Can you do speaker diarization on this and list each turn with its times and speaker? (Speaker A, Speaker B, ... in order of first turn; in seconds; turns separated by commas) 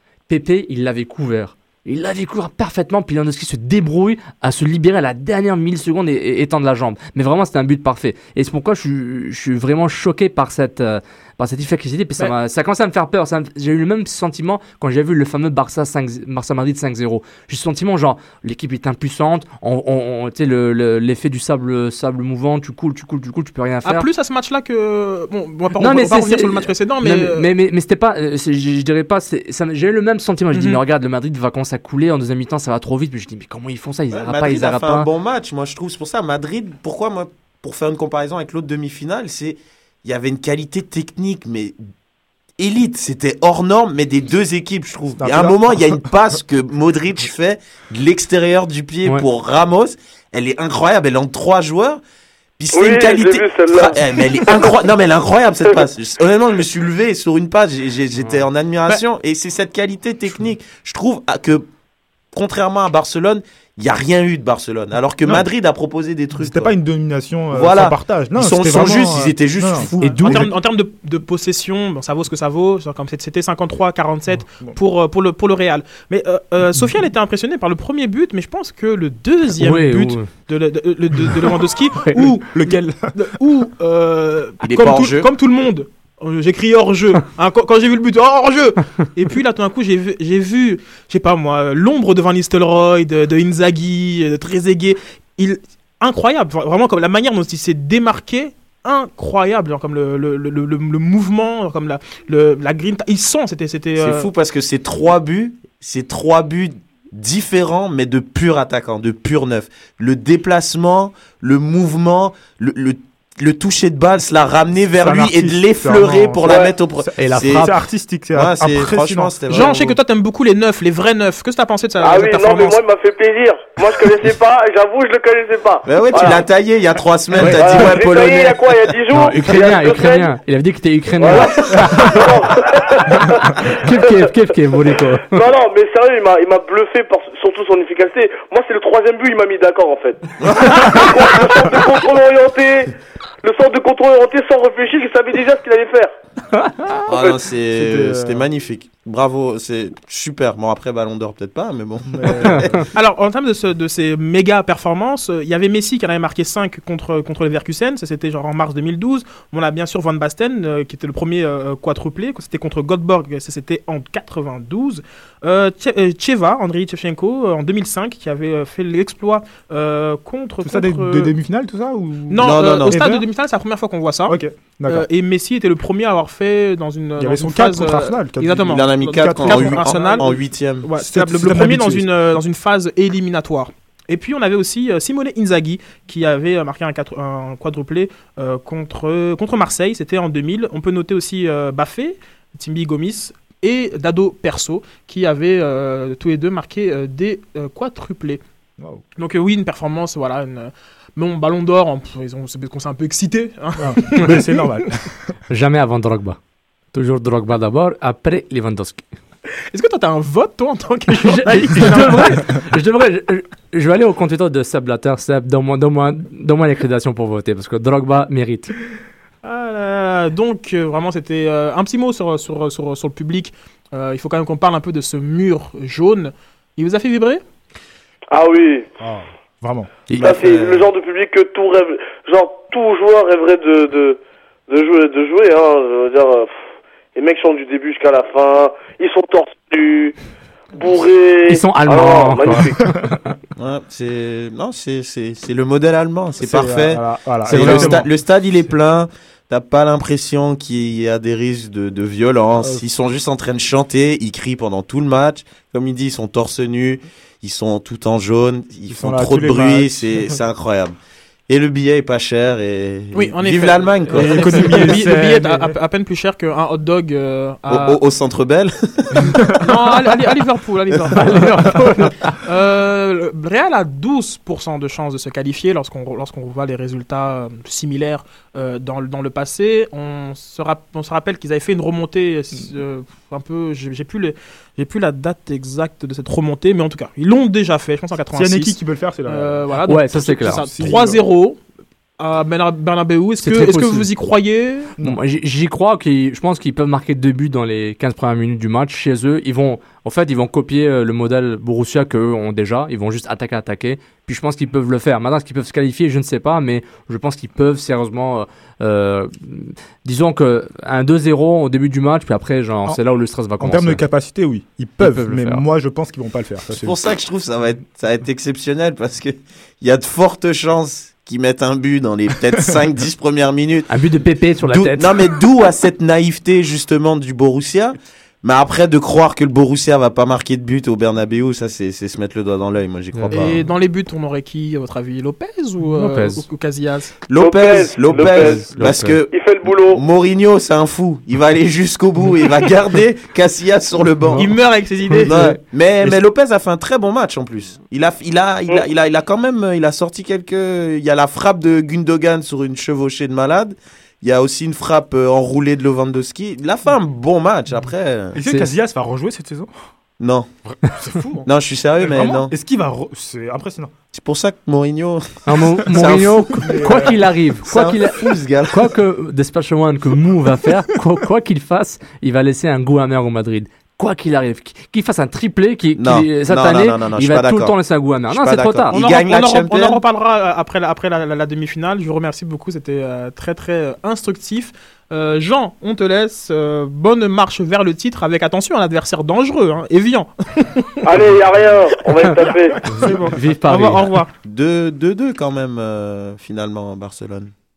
Speaker A: 0.3-24.1, Speaker B: 23.8-27.5, Speaker A: 25.8-35.1, Speaker B: 30.5-30.8, Speaker C: 34.1-41.8, Speaker C: 42.6-52.0, Speaker D: 45.2-46.1, Speaker C: 52.6-61.7, Speaker E: 52.7-54.7, Speaker C: 62.3-66.7, Speaker D: 66.4-70.5, Speaker C: 67.5-70.5, Speaker B: 70.0-104.3, Speaker A: 79.6-80.3, Speaker A: 82.0-82.2, Speaker D: 82.2-83.2, Speaker C: 84.6-85.3, Speaker C: 104.0-117.7, Speaker D: 115.0-120.0, Speaker E: 116.5-116.7, Speaker A: 117.2-117.8, Speaker C: 118.3-119.8, Speaker B: 119.5-122.8, Speaker E: 122.0-126.4, Speaker C: 125.8-128.2, Speaker A: 127.3-132.2, Speaker E: 127.4-130.3, Speaker E: 131.2-133.5, Speaker A: 133.4-135.3, Speaker E: 135.3-142.9, Speaker C: 140.4-141.6, Speaker E: 143.4-146.1, Speaker A: 146.5-147.0, Speaker C: 147.1-152.7, Speaker D: 147.7-148.4, Speaker D: 152.1-152.8, Speaker A: 152.4-152.9, Speaker B: 152.9-171.3, Speaker D: 170.6-173.3, Speaker B: 172.3-174.4, Speaker C: 172.4-173.0, Speaker D: 174.3-175.1, Speaker B: 174.9-198.4, Speaker D: 177.2-180.3, Speaker C: 178.6-180.9, Speaker D: 181.0-182.4, Speaker B: 199.2-204.6, Speaker D: 203.8-205.0, Speaker A: 205.5-206.4, Speaker A: 206.9-209.1, Speaker B: 209.7-212.5, Speaker A: 211.1-218.8, Speaker B: 219.4-227.4, Speaker E: 228.3-228.9, Speaker D: 229.0-230.1, Speaker C: 230.1-230.9, Speaker E: 230.2-236.6, Speaker E: 237.1-240.2, Speaker E: 240.8-242.8, Speaker A: 241.5-243.3, Speaker C: 243.6-260.9, Speaker D: 246.4-248.1, Speaker A: 247.4-248.1, Speaker D: 252.6-252.8, Speaker D: 258.9-260.3, Speaker C: 261.5-265.0, Speaker B: 263.1-268.0, Speaker D: 264.1-265.7, Speaker C: 267.7-269.2, Speaker B: 269.4-291.6, Speaker A: 271.1-272.4, Speaker D: 288.3-289.8, Speaker A: 289.8-290.9, Speaker D: 290.4-291.2, Speaker B: 292.2-294.9, Speaker A: 293.4-294.1, Speaker A: 295.0-314.0, Speaker D: 313.6-317.0, Speaker A: 315.0-315.6, Speaker C: 316.7-323.9, Speaker A: 323.9-325.2, Speaker C: 324.6-333.6, Speaker A: 333.1-333.6, Speaker B: 333.3-337.2, Speaker A: 335.9-336.4, Speaker C: 337.3-344.5, Speaker E: 337.3-338.6, Speaker A: 338.1-339.2, Speaker E: 339.3-340.0, Speaker B: 344.4-345.6, Speaker C: 345.2-358.4, Speaker D: 358.3-359.7, Speaker A: 358.4-358.7, Speaker C: 360.2-360.5, Speaker D: 360.8-361.4, Speaker C: 361.4-362.5, Speaker D: 362.0-363.9, Speaker C: 364.1-366.6, Speaker A: 365.4-379.0, Speaker D: 366.6-367.2, Speaker C: 367.6-368.9, Speaker C: 375.9-377.8, Speaker C: 378.3-380.0, Speaker B: 378.9-391.1, Speaker E: 391.0-392.8, Speaker B: 392.4-394.3, Speaker A: 392.9-394.1, Speaker C: 394.4-397.5